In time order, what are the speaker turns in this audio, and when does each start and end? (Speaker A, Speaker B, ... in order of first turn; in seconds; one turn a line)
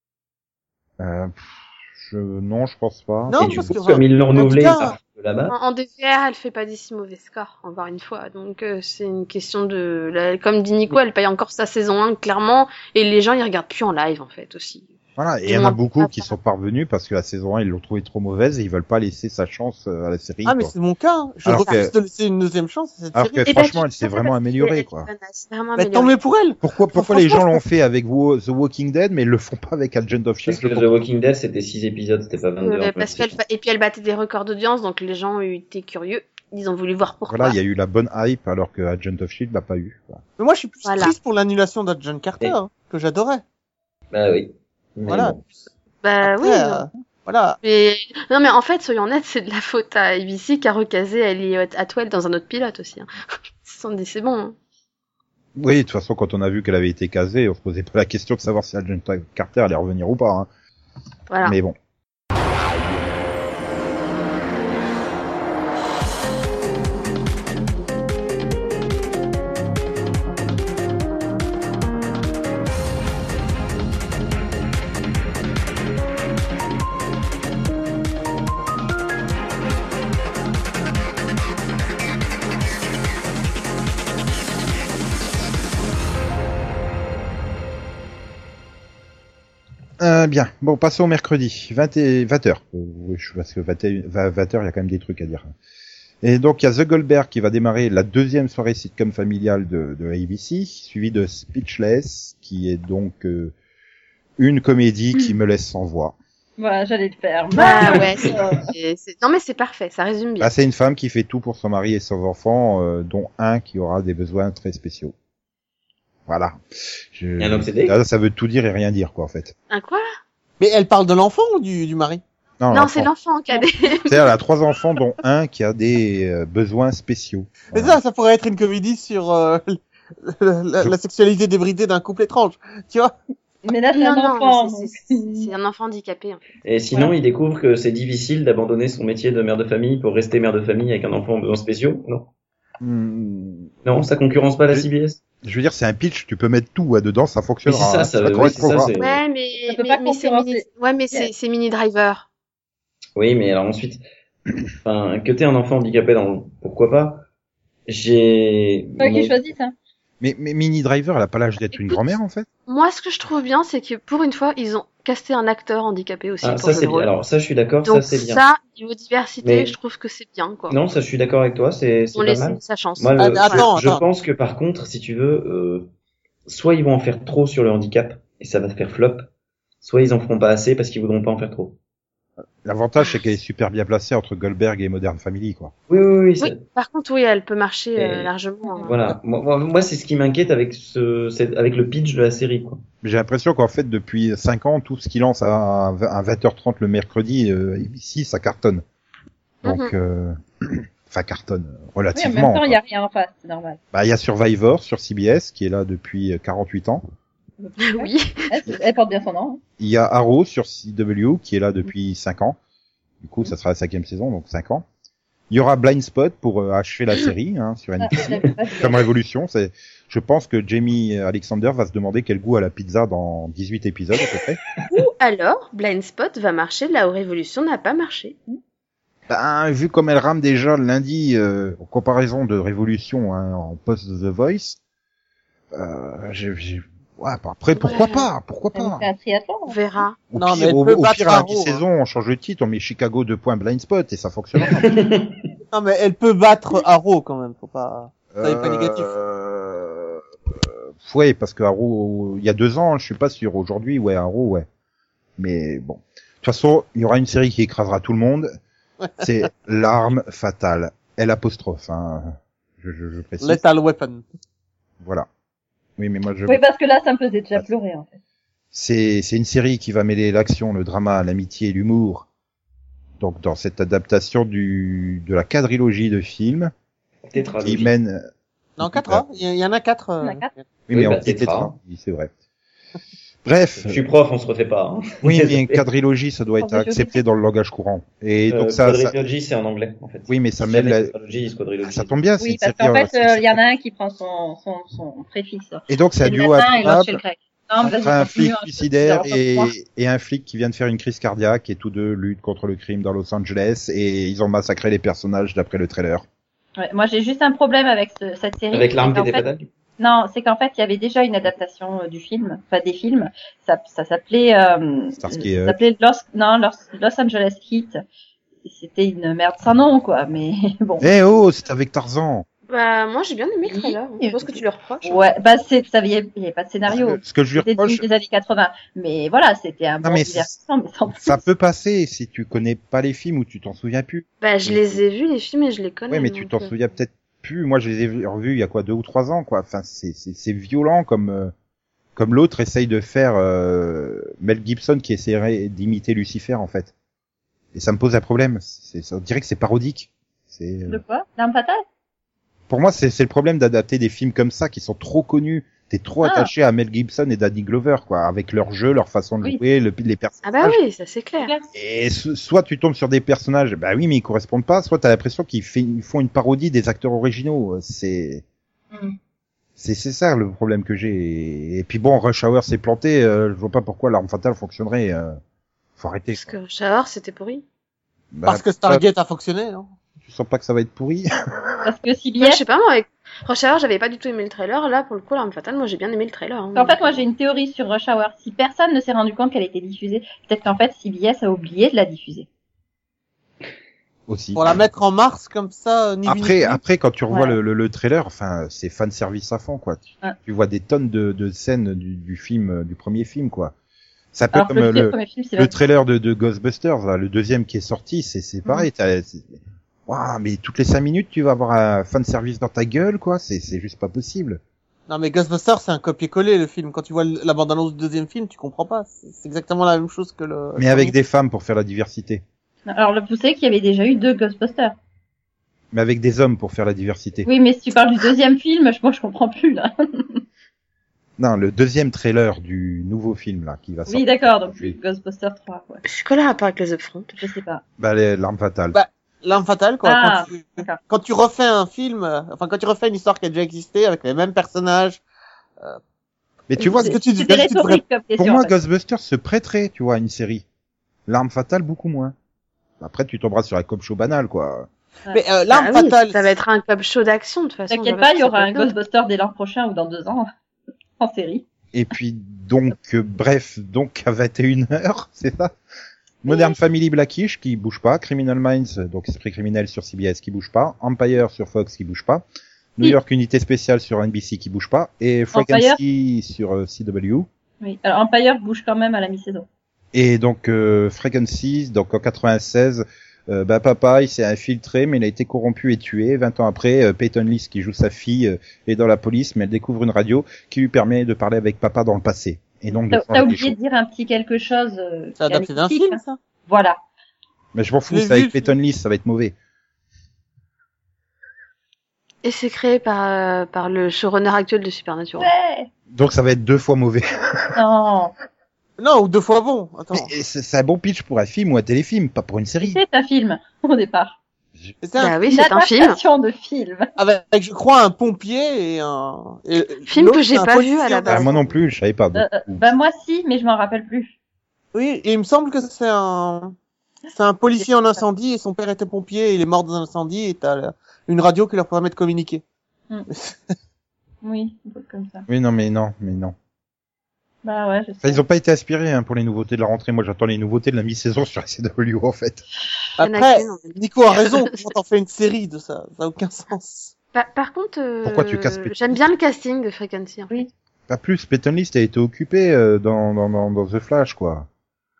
Speaker A: 1.0-3.8
Speaker B: 3.3-5.0
Speaker C: 3.4-5.5
Speaker D: 5.5-14.9
Speaker A: 15.2-20.7
Speaker D: 15.5-16.3
Speaker B: 20.5-23.5
Speaker A: 21.4-21.9
Speaker A: 23.1-25.1
Speaker D: 23.5-26.2
Speaker B: 25.8-27.6
Speaker A: 26.6-30.9
Speaker C: 30.4-33.3
Speaker D: 32.6-37.6
Speaker A: 37.3-40.2
Speaker B: 40.4-43.4
Speaker D: 40.9-41.1
Speaker C: 44.1-45.4
Speaker B: 45.1-45.4
Speaker D: 46.0-46.8
Speaker B: 46.2-47.6
Speaker D: 47.6-53.1
Speaker D: 53.6-54.5
Speaker A: 55.6-60.5
Speaker D: 61.3-61.6
Speaker A: 61.4-61.8
Speaker A: 90.0-95.5
Speaker A: 96.2-103.5
Speaker A: 104.4-106.2
Speaker E: 106.6-108.7
Speaker D: 107.5-110.5
Speaker C: 107.8-108.2
Speaker A: 110.4-115.1
Speaker A: 116.3-119.5
Speaker C: 117.4-118.0
Speaker D: 119.7-120.0
Speaker B: 120.6-122.2
Speaker A: 122.6-123.1
Speaker D: 122.7-124.3
Speaker A: 124.1-128.0
Speaker B: 127.7-133.2
Speaker E: 133.6-135.5
Speaker D: 133.9-137.1
Speaker C: 136.6-142.3
Speaker A: 142.8-143.7
Speaker C: 143.8-145.2
Speaker A: 145.4-148.9
Speaker C: 147.7-149.2
Speaker D: 148.9-152.3
Speaker E: 149.7-151.3
Speaker C: 153.2-154.0
Speaker C: 154.8-157.2
Speaker C: 157.9-159.4
Speaker E: 159.0-159.7
Speaker A: 160.2-162.5
Speaker D: 162.7-167.1
Speaker C: 166.4-168.4
Speaker D: 167.9-170.8
Speaker C: 169.4-169.7
Speaker C: 170.7-175.9
Speaker D: 172.1-173.7
Speaker B: 173.2-174.0
Speaker C: 176.5-179.3
Speaker C: 179.8-181.8
Speaker A: 182.6-185.7
Speaker C: 185.9-186.6
Speaker D: 186.4-188.9
Speaker C: 188.0-188.3
Speaker E: 188.7-189.0
Speaker C: 188.9-192.8
Speaker A: 193.0-198.8
Speaker D: 199.6-199.9
Speaker A: 199.6-202.8
Speaker E: 202.1-203.8
Speaker A: 203.9-207.0
Speaker E: 207.6-209.6
Speaker D: 207.8-208.5
Speaker A: 209.8-212.6
Speaker A: 213.2-214.8
Speaker A: 215.5-224.6
Speaker E: 218.0-219.0
Speaker D: 224.9-228.4
Speaker A: 229.3-234.8
Speaker A: 235.7-239.1
Speaker D: 237.8-238.3
Speaker E: 238.8-239.8
Speaker D: 239.7-240.2
Speaker A: 240.3-245.0
Speaker B: 240.4-241.8
Speaker C: 244.6-245.3
Speaker B: 245.7-249.1
Speaker A: 248.3-254.7
Speaker A: 255.4-258.5
Speaker A: 259.2-263.6
Speaker B: 263.4-264.2
Speaker A: 265.0-265.3
Speaker A: 266.0-266.6
Speaker E: 266.5-268.1
Speaker A: 268.7-272.3
Speaker A: 273.2-276.7
Speaker C: 277.3-277.9
Speaker A: 277.6-278.2
Speaker B: 278.8-280.7
Speaker A: 278.8-279.2
Speaker E: 280.2-280.5
Speaker A: 280.9-282.3
Speaker C: 280.9-281.8
Speaker A: 283.4-284.1
Speaker C: 283.8-285.8
Speaker A: 285.2-289.2
Speaker E: 286.6-287.2
Speaker C: 288.5-292.2
Speaker A: 290.3-291.1
Speaker A: 291.8-293.6
Speaker E: 292.4-299.7
Speaker A: 295.9-297.2
Speaker A: 297.8-306.2
Speaker E: 306.8-309.4
Speaker C: 308.7-309.7
Speaker E: 310.0-318.0
Speaker A: 315.2-315.8
Speaker E: 318.6-321.1
Speaker A: 321.0-322.5
Speaker D: 322.7-325.3
Speaker E: 323.6-331.4
Speaker A: 326.9-328.1
Speaker A: 330.0-330.6
Speaker A: 331.1-335.0
Speaker D: 334.4-336.7
Speaker A: 336.1-341.5
Speaker A: 342.2-346.9
Speaker A: 347.7-351.0
Speaker E: 350.9-351.8
Speaker A: 352.7-360.8
Speaker E: 356.2-356.5
Speaker D: 360.4-361.5
Speaker E: 361.4-361.7
Speaker A: 361.7-368.4
Speaker A: 369.8-375.4
Speaker A: 376.0-376.6
Speaker D: 376.4-377.6
Speaker A: 378.3-379.0
Speaker B: 378.5-379.9
Speaker A: 380.2-381.3
Speaker E: 381.8-382.6
Speaker D: 382.4-387.2
Speaker E: 386.8-392.5
Speaker A: 394.3-394.7
Speaker B: 394.6-396.8
Speaker A: 396.3-403.7
Speaker E: 397.3-397.6
Speaker A: 404.3-414.6
Speaker E: 404.5-405.7
Speaker B: 415.1-421.1
Speaker A: 420.8-422.4
Speaker E: 422.9-425.0
Speaker A: 425.9-427.5
Speaker E: 427.4-430.4
Speaker A: 431.4-434.9
Speaker E: 434.1-436.0
Speaker D: 436.0-437.4
Speaker E: 437.4-437.8
Speaker A: 438.0-439.0
Speaker B: 438.9-445.2
Speaker E: 440.0-441.0
Speaker A: 446.7-447.6
Speaker B: 446.8-448.0
Speaker E: 446.9-448.8
Speaker A: 448.4-450.6
Speaker A: 451.3-452.3
Speaker A: 453.0-454.9
Speaker B: 455.3-456.4
Speaker D: 455.7-458.9
Speaker E: 457.9-460.5
Speaker E: 461.2-461.6
Speaker A: 461.9-465.7
Speaker A: 466.4-472.4
Speaker E: 466.5-466.7
Speaker A: 473.0-477.5
Speaker E: 475.5-476.0
Speaker E: 477.8-479.7
Speaker A: 480.1-493.8
Speaker E: 493.1-497.0
Speaker B: 495.4-496.4
Speaker A: 497.8-499.6
Speaker B: 498.1-498.6
Speaker D: 502.4-505.5
Speaker E: 505.4-505.9
Speaker A: 506.1-507.7
Speaker E: 507.8-508.3
Speaker B: 509.0-510.3
Speaker A: 510.1-513.0
Speaker E: 512.8-514.4
Speaker B: 515.0-515.4
Speaker D: 515.2-516.2
Speaker E: 515.5-517.1
Speaker B: 517.2-521.6
Speaker D: 520.1-521.7
Speaker A: 521.3-522.9
Speaker E: 522.3-524.3
Speaker B: 524.9-526.8
Speaker B: 527.3-532.6
Speaker E: 527.8-528.2
Speaker B: 533.3-533.7
Speaker E: 534.4-535.5
Speaker A: 535.5-536.5
Speaker E: 537.6-538.4
Speaker A: 538.2-542.6
Speaker B: 543.2-547.1
Speaker D: 543.2-544.8
Speaker D: 547.3-550.5
Speaker A: 548.2-549.2
Speaker A: 551.1-554.7